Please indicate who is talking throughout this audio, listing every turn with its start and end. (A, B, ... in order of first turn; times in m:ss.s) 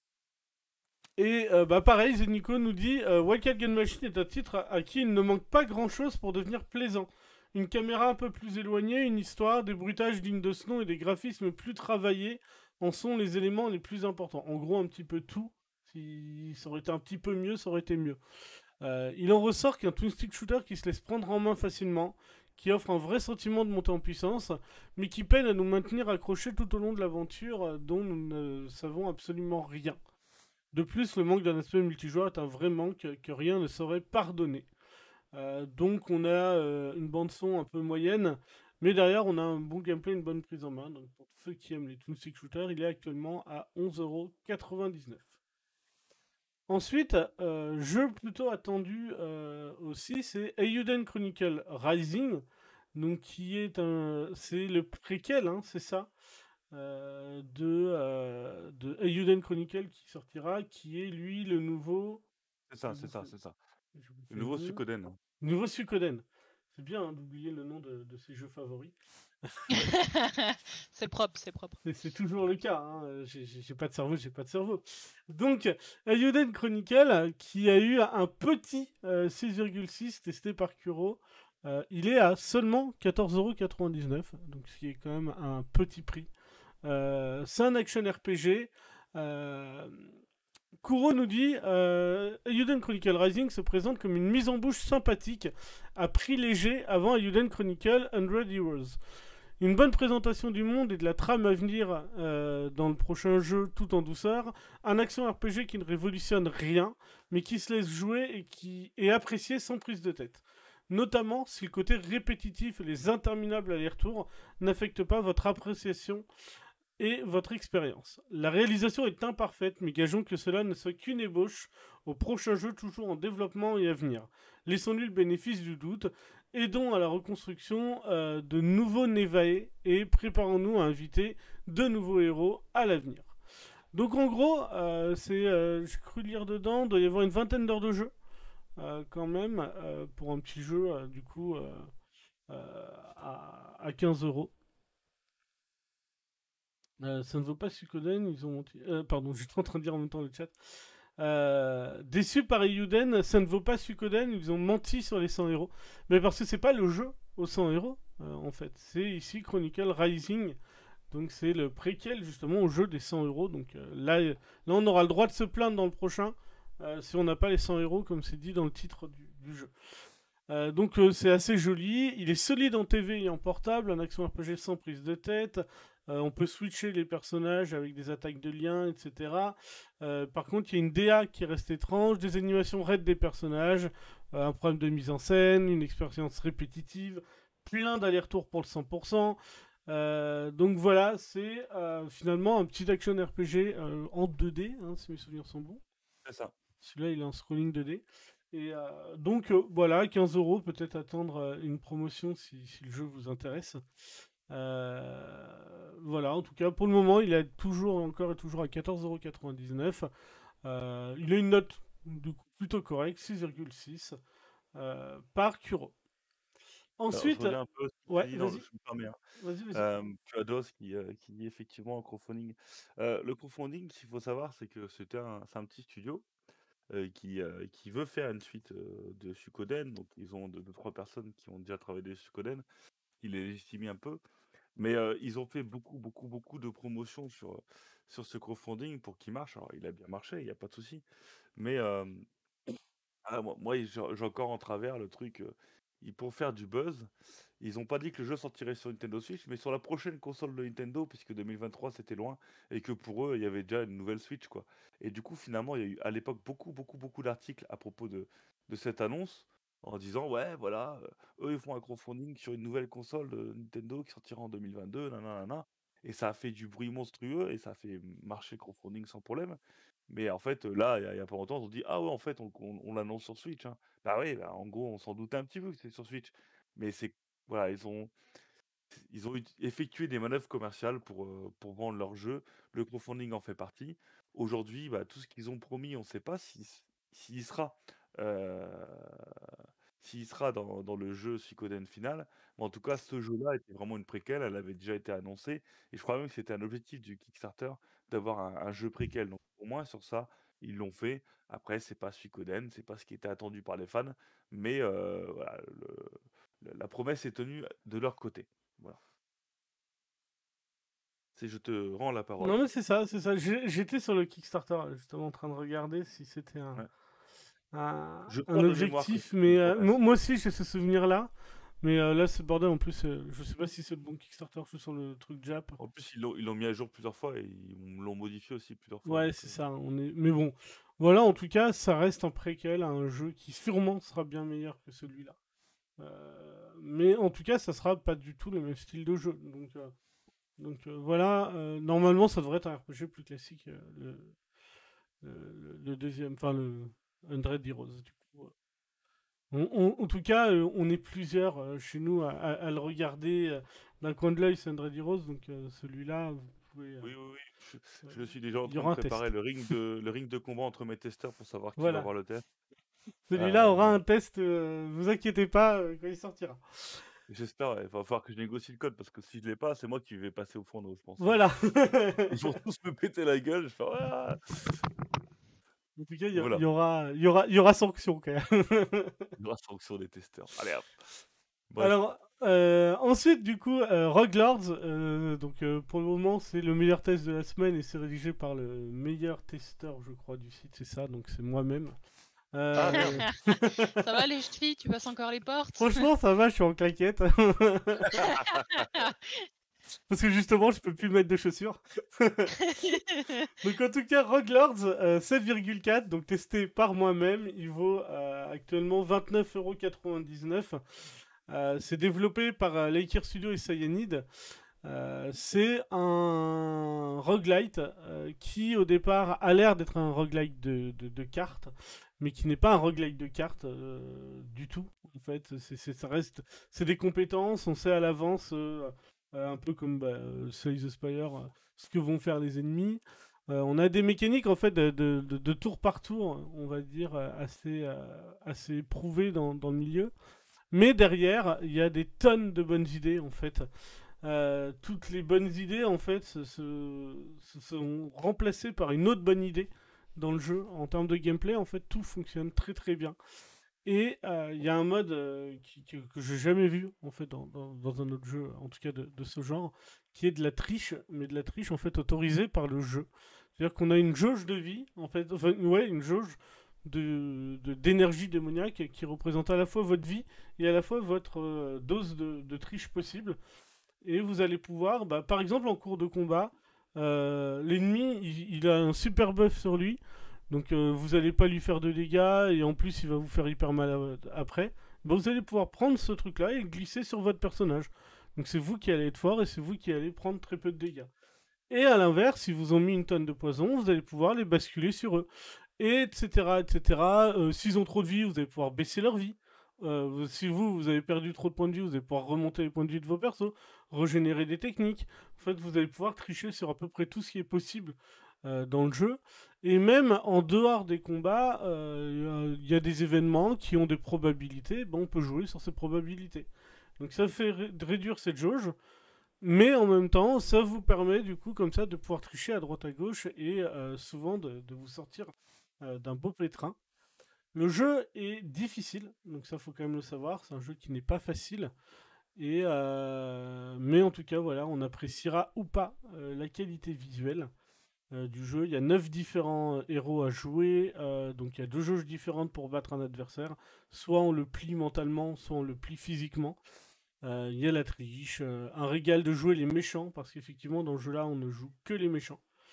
0:01.2-0:18.2 A
0:18.8-0:30.0 A
0:30.7-0:34.7 A
0:35.3-0:45.3 A
0:46.7-0:56.1 A
0:56.7-1:02.2 A
1:02.7-1:03.6 B
1:02.9-1:03.3 A
1:03.9-1:04.8 A
1:04.3-1:05.2 B
1:05.4-1:09.8 A
1:09.7-1:11.8 C
1:11.8-1:26.3 A
1:26.8-1:30.1 A
1:30.8-1:39.0 A
1:39.6-1:56.2 A
1:57.0-2:13.3 A
2:13.9-2:18.1 A
2:18.8-2:21.9 A
2:22.5-2:24.5 A
2:27.0-2:40.6 A
2:41.1-2:49.7 A
2:50.5-3:15.8 A
3:16.2-3:16.5 B
3:16.8-3:23.8 A
3:24.5-3:30.1 A
3:30.6-3:34.2 A
3:34.7-3:35.9 A
3:37.0-3:38.6 A
3:37.1-3:39.2 B
3:39.4-3:39.9 A
3:39.7-3:46.2 B
3:46.9-3:52.6 B
3:53.2-3:54.2 B
3:54.8-4:01.0 B
4:01.6-4:02.2 B
4:03.2-4:38.1 B
4:38.9-4:49.2 B
4:50.0-5:09.0 B
5:11.4-5:12.6 B
5:12.4-5:16.8 A
5:17.7-5:25.8 A
5:18.3-5:19.9 B
5:25.8-5:29.6 B
5:29.0-5:35.4 A
5:36.0-5:39.9 A
5:40.6-5:44.4 A
5:45.2-5:48.5 A
5:49.5-5:57.1 A
5:57.0-6:02.4 B
5:58.6-5:59.7 A
6:01.8-6:02.1 A
6:03.3-6:07.0 A
6:03.3-6:04.0 B
6:07.3-6:11.4 B
6:11.2-6:12.4 A
6:12.3-6:14.8 B
6:16.0-6:19.2 A
6:16.3-6:16.6 B
6:19.4-6:21.0 B
6:21.7-6:22.0 B
6:21.8-6:31.9 A
6:32.5-6:34.2 A
6:32.7-6:33.3 B
6:32.9-6:36.1 C
6:35.8-6:38.3 A
6:38.0-6:38.9 B
6:38.2-6:39.5 C
6:40.1-6:43.0 A
6:42.6-6:43.5 C
6:43.6-6:54.2 A
6:54.8-7:20.1 A
7:20.7-7:23.7 A
7:24.2-7:33.2 A
7:33.8-7:53.4 A
7:54.0-8:11.1 A
8:11.7-8:38.7 A
8:39.4-8:46.8 A
8:47.5-8:51.7 A
8:52.4-8:57.5 A
8:58.1-9:06.6 A
9:07.2-9:12.4 A